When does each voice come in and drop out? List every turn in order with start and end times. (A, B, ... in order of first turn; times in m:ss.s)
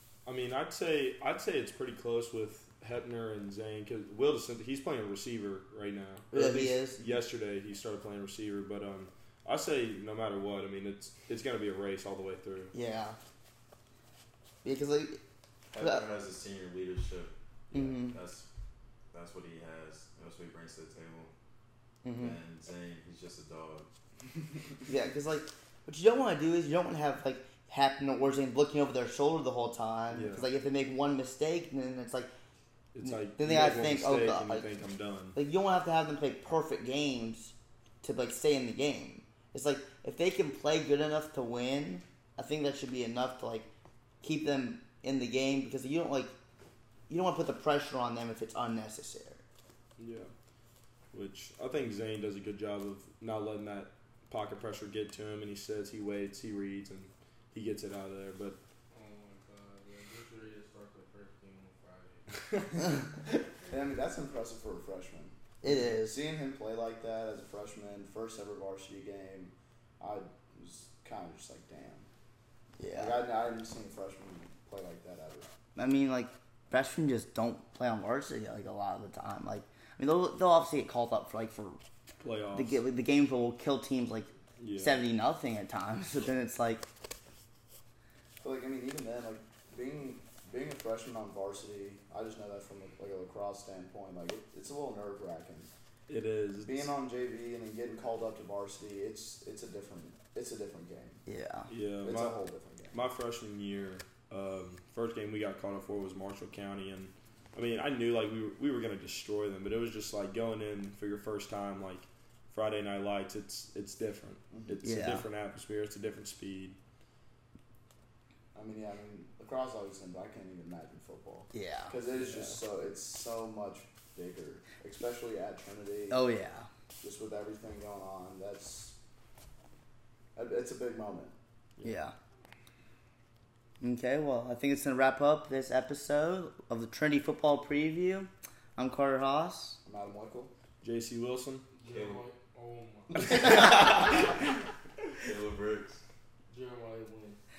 0:00.2-0:12.7 A
0:06.3-0:07.0 B
0:12.7-0:13.2 B
0:14.6-0:15.2 B
0:15.7-0:18.5 C
0:15.8-0:16.0 B
0:17.7-0:18.1 B
0:19.1-0:21.3 C
0:22.0-0:22.4 B
0:22.1-0:23.9 C
0:24.9-0:32.3 B
0:30.1-0:30.5 A
0:32.9-0:35.4 A
0:33.0-0:34.7 B
0:35.3-0:43.7 B
0:44.2-0:46.3 B
0:47.1-0:49.4 B
0:50.0-0:50.3 A
0:51.1-0:58.6 A
0:58.9-1:02.9 D
1:03.7-1:12.1 E
1:05.6-1:06.2 B
1:12.8-1:13.2 B
1:12.9-1:15.5 E
1:15.8-1:21.8 B
1:22.2-1:22.8 A
1:22.5-1:26.8 B
1:24.6-1:25.0 A
1:28.4-1:35.7 E
1:36.1-1:36.9 A
1:36.6-1:41.2 E
1:41.2-1:41.7 B
1:41.7-1:42.4 A
1:42.0-1:43.0 E
1:42.9-1:56.8 A
1:54.5-1:54.8 E
1:54.8-1:55.3 B
1:58.5-2:06.2 E
2:01.5-2:01.9 B
2:02.1-2:02.6 A
2:06.1-2:06.7 B
2:07.0-2:09.0 E
2:10.3-2:11.3 E
2:11.8-2:12.1 B
2:13.8-2:19.8 B
2:19.8-2:20.5 E
2:20.8-2:21.6 A
2:21.7-2:24.4 D
2:21.9-2:22.2 C
2:23.8-2:24.4 C
2:25.2-2:26.0 C
2:26.5-2:27.4 D